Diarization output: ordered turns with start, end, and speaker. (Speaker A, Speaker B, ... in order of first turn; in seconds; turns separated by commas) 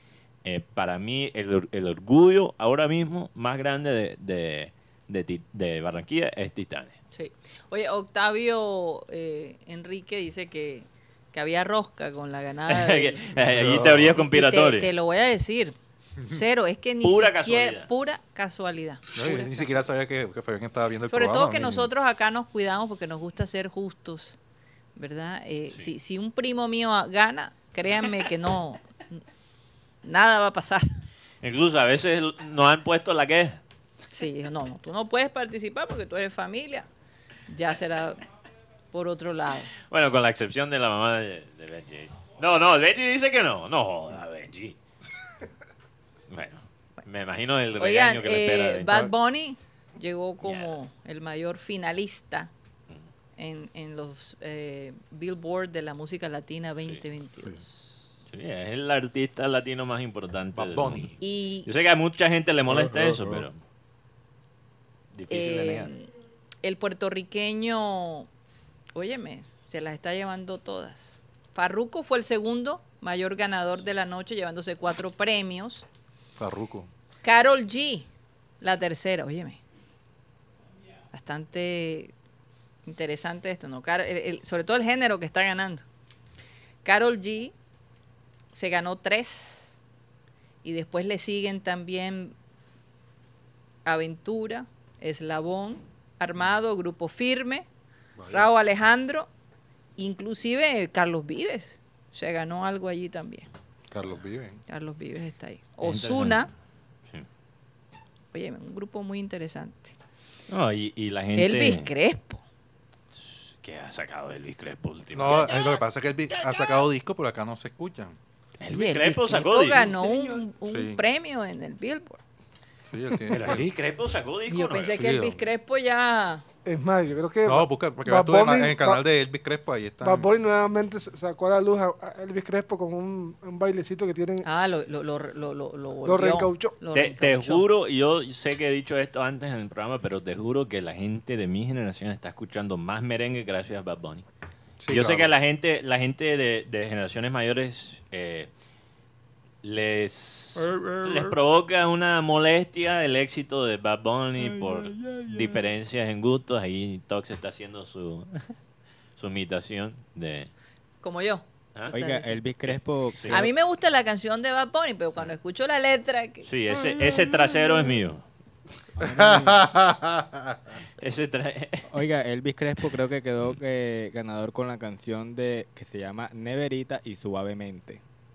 Speaker A: 0.4-7.0, Speaker B: 7.1-13.2, Speaker A: 12.7-14.9, Speaker C: 13.4-14.2, Speaker B: 14.1-19.8, Speaker A: 17.0-17.9, Speaker C: 19.1-21.9, Speaker B: 21.1-24.4, Speaker B: 24.9-29.2, Speaker B: 30.0-30.9, Speaker A: 31.4-33.6, Speaker B: 34.1-36.9, Speaker B: 37.5-38.2, Speaker B: 38.9-39.7, Speaker A: 39.8-44.8, Speaker A: 46.3-49.1, Speaker B: 47.8-52.5, Speaker A: 50.4-50.7, Speaker B: 53.4-58.0, Speaker A: 58.3-63.5, Speaker C: 60.5-61.1, Speaker B: 61.2-61.7, Speaker C: 62.6-63.5, Speaker A: 65.1-65.9, Speaker B: 65.3-66.1, Speaker B: 66.6-68.3, Speaker B: 68.9-75.8, Speaker C: 76.4-76.9, Speaker B: 77.2-78.1, Speaker B: 78.6-79.6, Speaker B: 81.1-82.1, Speaker B: 82.9-85.8, Speaker B: 86.8-87.5, Speaker B: 88.5-89.8, Speaker B: 90.6-92.3, Speaker B: 93.8-97.7, Speaker C: 98.2-98.5, Speaker B: 98.3-99.3, Speaker B: 100.0-103.5, Speaker C: 103.9-104.6, Speaker B: 104.7-106.5, Speaker A: 105.8-106.5, Speaker B: 108.3-110.0, Speaker A: 110.5-111.9, Speaker B: 111.4-112.4, Speaker A: 113.1-115.6, Speaker C: 115.1-118.2, Speaker A: 118.6-119.9, Speaker B: 118.7-122.2, Speaker D: 119.6-120.4, Speaker C: 120.7-121.0, Speaker C: 122.9-123.7, Speaker A: 123.3-125.0, Speaker B: 124.5-126.4, Speaker C: 124.9-125.4, Speaker D: 126.6-129.0, Speaker C: 127.4-130.3, Speaker D: 130.0-134.4, Speaker B: 134.4-137.6, Speaker D: 136.0-136.8, Speaker A: 136.9-144.2, Speaker C: 144.8-145.3, Speaker A: 144.9-148.5, Speaker A: 149.6-158.5, Speaker C: 150.6-151.4, Speaker E: 155.0-155.3, Speaker A: 159.2-160.5, Speaker B: 161.0-162.4, Speaker E: 161.9-163.5, Speaker A: 162.6-163.4, Speaker B: 163.3-166.5, Speaker A: 166.4-168.2, Speaker E: 169.0-169.7, Speaker C: 169.0-170.6, Speaker A: 171.0-171.9, Speaker E: 171.9-178.0